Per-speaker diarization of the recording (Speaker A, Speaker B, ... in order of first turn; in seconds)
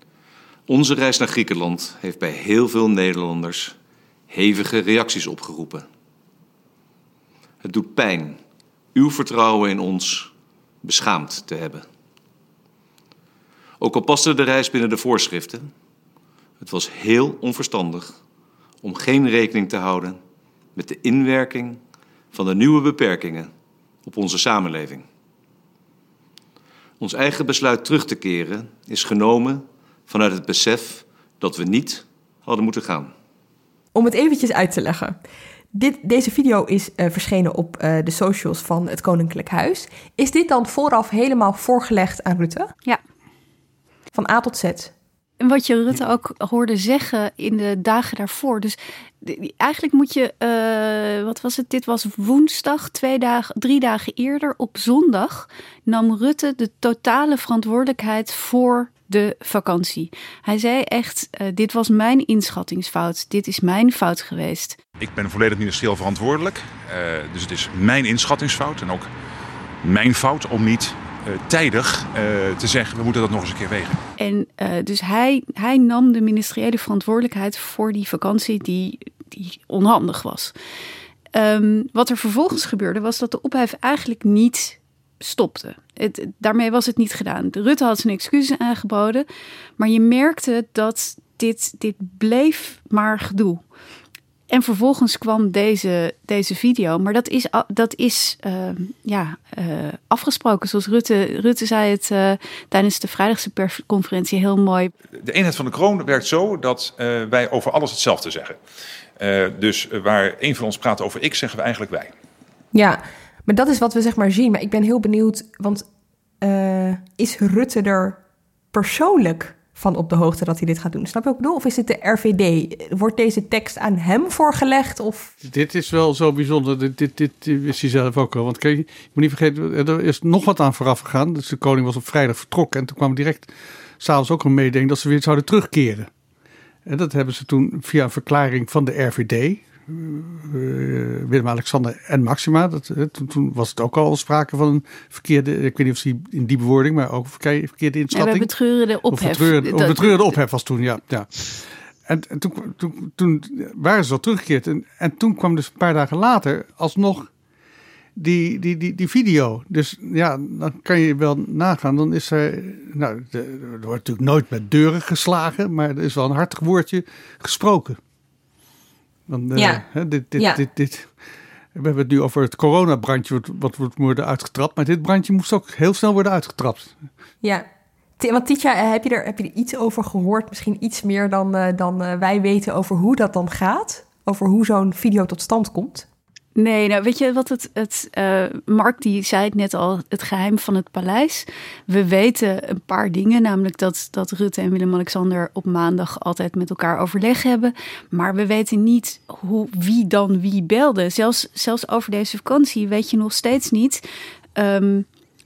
Speaker A: 0.7-3.8, 4.3-5.9, 7.6-8.4, 8.9-10.3, 10.8-11.9, 13.8-15.7, 16.6-18.2, 18.8-20.2, 20.8-21.8, 22.3-23.5, 24.1-25.1, 27.0-33.1
Speaker B: 33.9-35.2, 35.7-42.7, 44.1-44.9, 112.7-115.9, 116.4-118.2, 118.7-125.3, 169.6-169.8, 170.4-170.6, 178.2-186.1
Speaker C: 45.4-64.8, 74.2-80.5, 81.3-89.3, 89.8-93.6, 94.5-104.9, 148.1-150.3, 186.6-204.0, 204.6-205.1
Speaker D: 65.0-69.1, 69.8-74.0, 105.2-108.6, 109.2-112.1
Speaker E: 125.4-136.1, 136.9-148.5, 149.1-157.3, 158.2-168.0, 169.3-171.1, 171.8-176.9